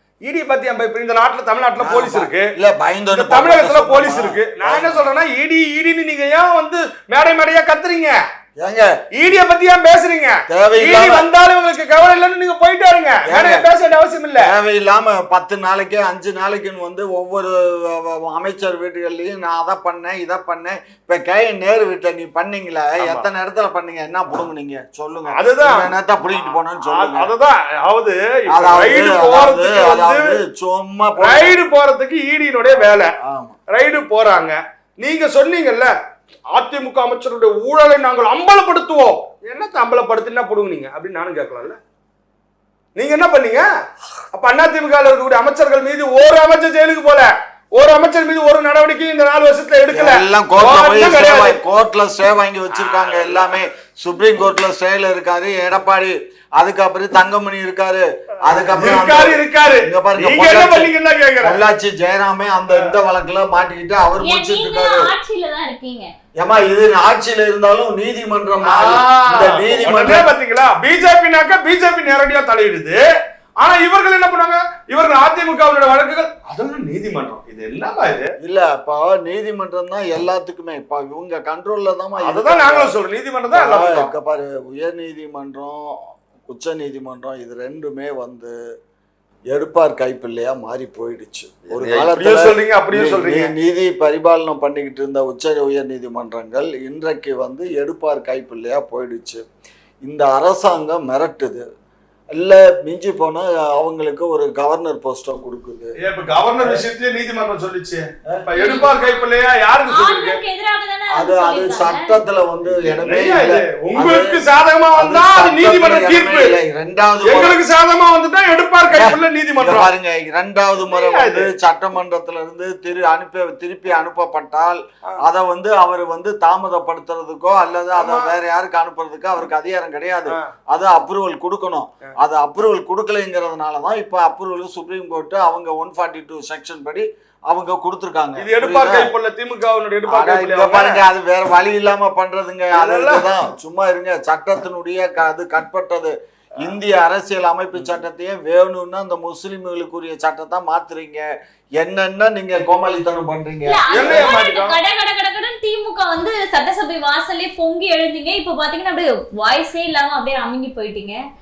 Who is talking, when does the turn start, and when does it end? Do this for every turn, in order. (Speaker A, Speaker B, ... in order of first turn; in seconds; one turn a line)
Speaker A: 0.2-2.5
Speaker B: 1.8-5.1
Speaker A: 3.1-8.2
Speaker B: 8.6-8.9
Speaker A: 9.1-14.5
Speaker B: 10.5-11.3
Speaker B: 13.3-13.7
Speaker B: 14.4-27.3
Speaker A: 23.0-23.3
Speaker A: 25.3-25.9
Speaker A: 26.5-30.3
Speaker B: 28.5-31.6
Speaker A: 31.2-33.1
Speaker B: 32.7-33.6
Speaker A: 33.7-35.9
Speaker A: 36.5-41.8
Speaker A: 43.0-43.7
Speaker A: 44.3-51.6
Speaker B: 49.9-60.9
Speaker A: 52.9-53.4
Speaker A: 58.5-61.6
Speaker B: 61.4-65.1
Speaker C: 64.2-66.1
Speaker B: 66.4-70.3
Speaker A: 68.6-73.0
Speaker A: 73.6-78.3
Speaker B: 78.4-83.0
Speaker A: 82.2-84.1
Speaker B: 83.5-88.5
Speaker B: 89.5-99.4
Speaker A: 91.7-93.5
Speaker B: 100.0-101.6
Speaker B: 102.3-105.9
Speaker A: 106.0-110.4
Speaker B: 106.6-106.9
Speaker C: 108.6-109.2
Speaker C: 109.9-112.2
Speaker B: 111.1-114.4
Speaker A: 112.8-116.6
Speaker B: 115.0-117.6
Speaker A: 117.2-119.9
Speaker B: 118.9-139.1
Speaker A: 120.9-121.5
Speaker A: 128.0-128.3
Speaker A: 138.4-141.0
Speaker B: 140.1-151.3
Speaker A: 142.7-143.4
Speaker B: 151.8-154.3
Speaker C: 153.7-161.2
Speaker A: 153.9-154.8